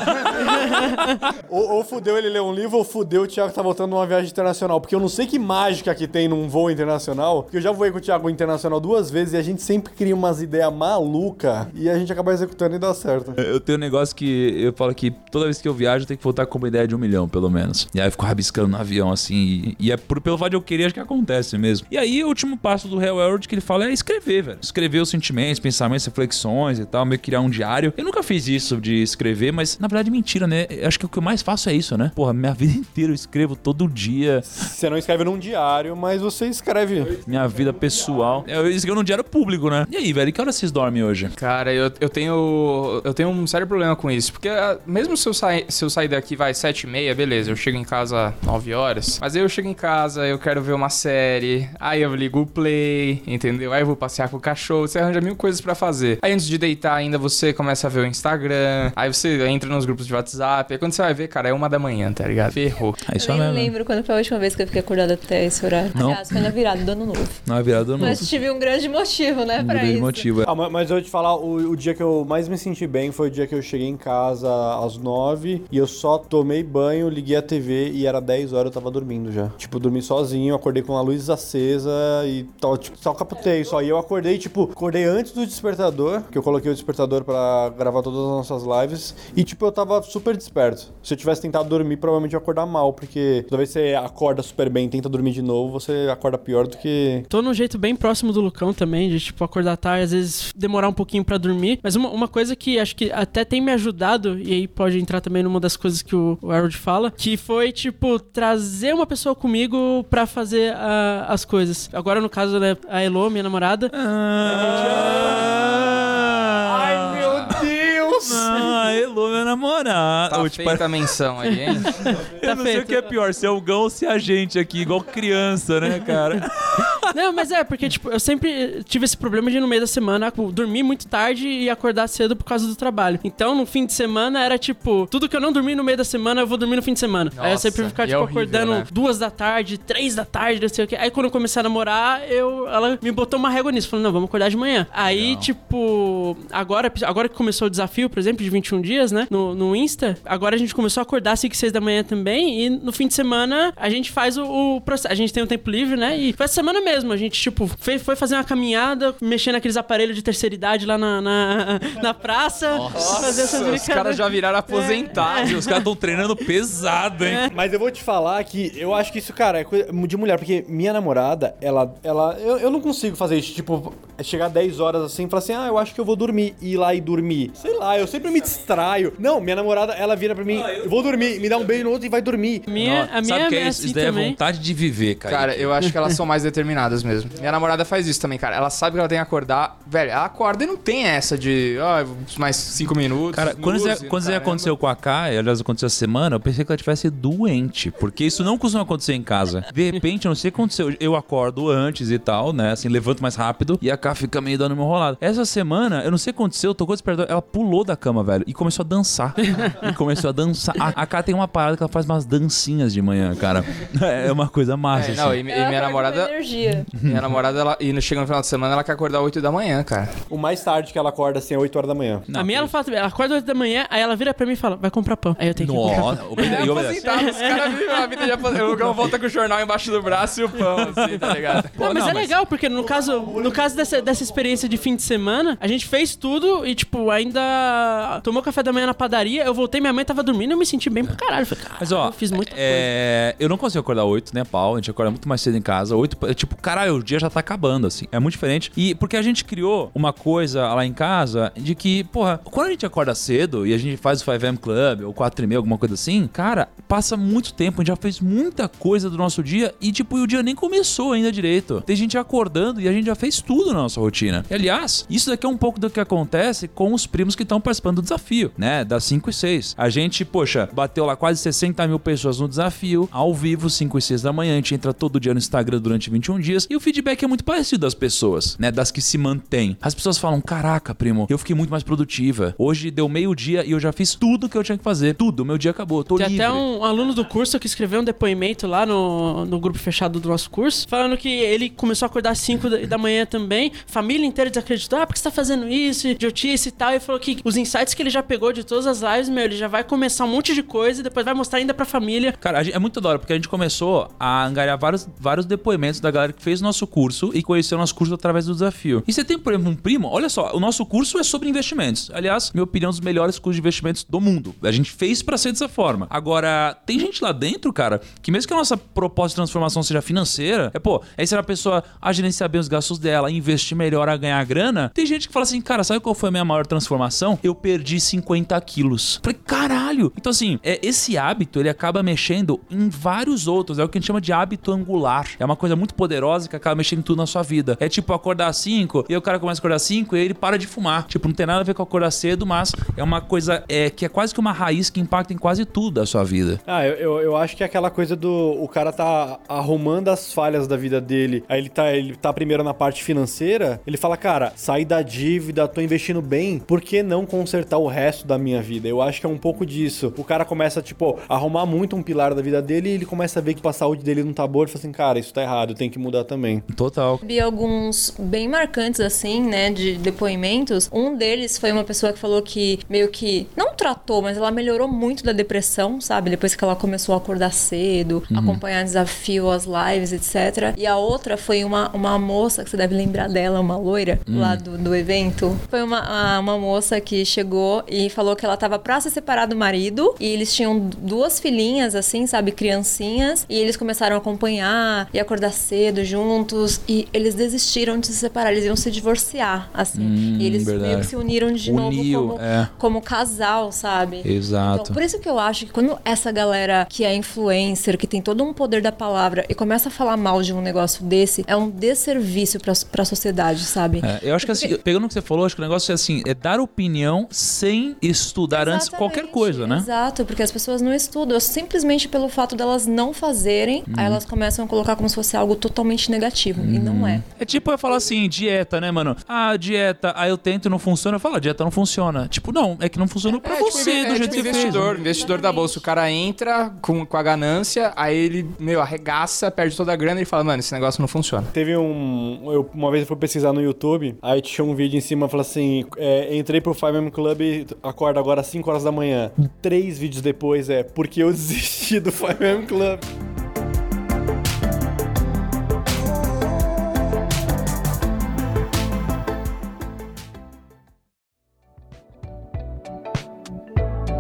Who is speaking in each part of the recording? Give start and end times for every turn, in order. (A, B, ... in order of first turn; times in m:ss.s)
0:00.3-0:13.4 A
0:13.4-0:34.5 B
0:34.5-0:37.2 A
0:37.2-0:41.3 B
0:41.4-1:03.0 C
1:03.1-1:03.7 B
1:03.1-1:10.3 D
1:05.9-1:06.5 B
1:07.5-1:08.3 B
1:09.6-1:10.5 B
1:10.4-1:37.3 A
1:37.3-1:53.9 E
1:53.9-2:01.0 B
1:54.5-1:55.6 A
1:56.7-1:58.4 A
2:00.3-2:01.9 C
2:01.5-2:03.1 E
2:02.1-2:07.1 B
2:05.8-2:06.4 E
2:07.0-2:45.8 E
2:17.3-2:18.9 C
2:25.0-2:25.5 B
2:42.7-2:43.7 B
2:42.9-2:45.9 C
2:45.2-2:47.5 B
2:47.5-3:02.7 A
3:02.7-3:04.4 E
3:02.8-3:05.8 B
3:05.2-3:14.7 C
3:13.3-3:35.4 B
3:29.5-3:29.8 E
3:34.9-3:36.3 C
3:35.4-3:36.9 D
3:36.9-3:37.3 B
3:37.0-3:40.2 C
3:40.3-3:42.3 A
3:42.3-3:42.7 B
3:42.3-3:48.4 E
3:45.6-3:47.1 B
3:46.4-3:51.8 C
3:51.2-3:52.4 B
3:51.8-4:02.9 E
4:01.8-4:46.6 B
4:46.2-5:02.4 E
5:02.4-5:46.6 B
5:46.7-6:06.6 A
6:06.7-6:07.2 B
6:07.2-6:54.7 D
6:18.3-6:18.6 B
6:24.3-6:24.6 B
6:40.0-6:41.1 B
6:41.6-6:42.7 B
6:44.2-6:45.0 B
6:54.0-6:59.9 B
6:58.5-7:07.2 D
7:03.9-7:04.2 B
7:06.6-7:14.9 B
7:13.3-7:15.8 D
7:13.4-7:21.5 C
7:21.5-7:33.0 A